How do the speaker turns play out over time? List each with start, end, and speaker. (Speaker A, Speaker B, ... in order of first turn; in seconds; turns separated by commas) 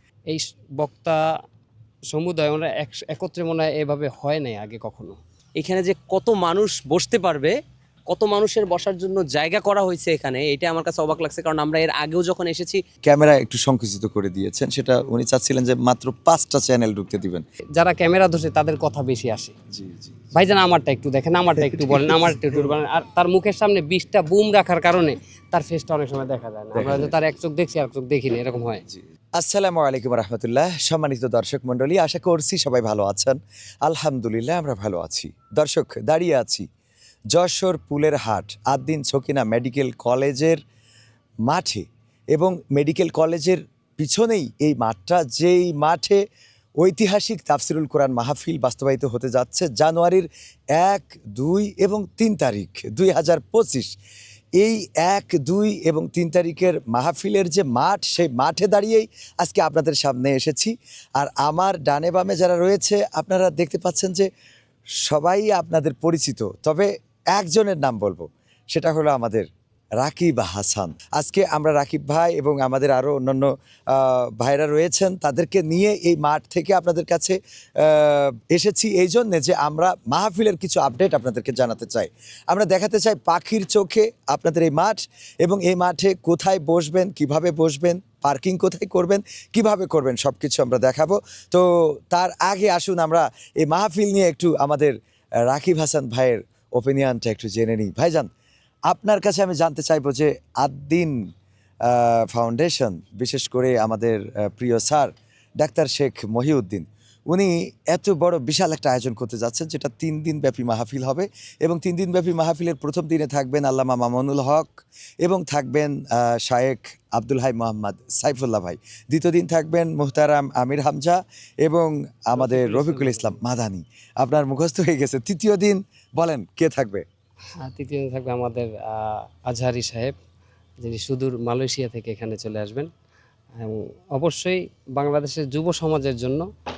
Speaker A: 0.3-1.2, Speaker A: 2.1-5.2, Speaker B: 5.6-7.5, Speaker B: 8.1-12.8, Speaker C: 13.0-17.4, Speaker A: 17.8-19.5, Speaker C: 19.7-20.2, Speaker A: 20.3-28.8, Speaker C: 21.6-22.7, Speaker C: 26.7-27.1, Speaker C: 28.9-36.6, Speaker C: 37.3-40.6, Speaker C: 41.5-46.2, Speaker C: 46.8-53.9, Speaker C: 54.6-64.3, Speaker C: 65.0-69.5, Speaker C: 70.0-94.9, Speaker C: 95.5-98.3, Speaker C: 98.9-101.2, Speaker C: 101.8-127.0, Speaker A: 122.3-123.4, Speaker A: 127.6-130.1, Speaker A: 130.8-132.9, Speaker A: 133.6-136.4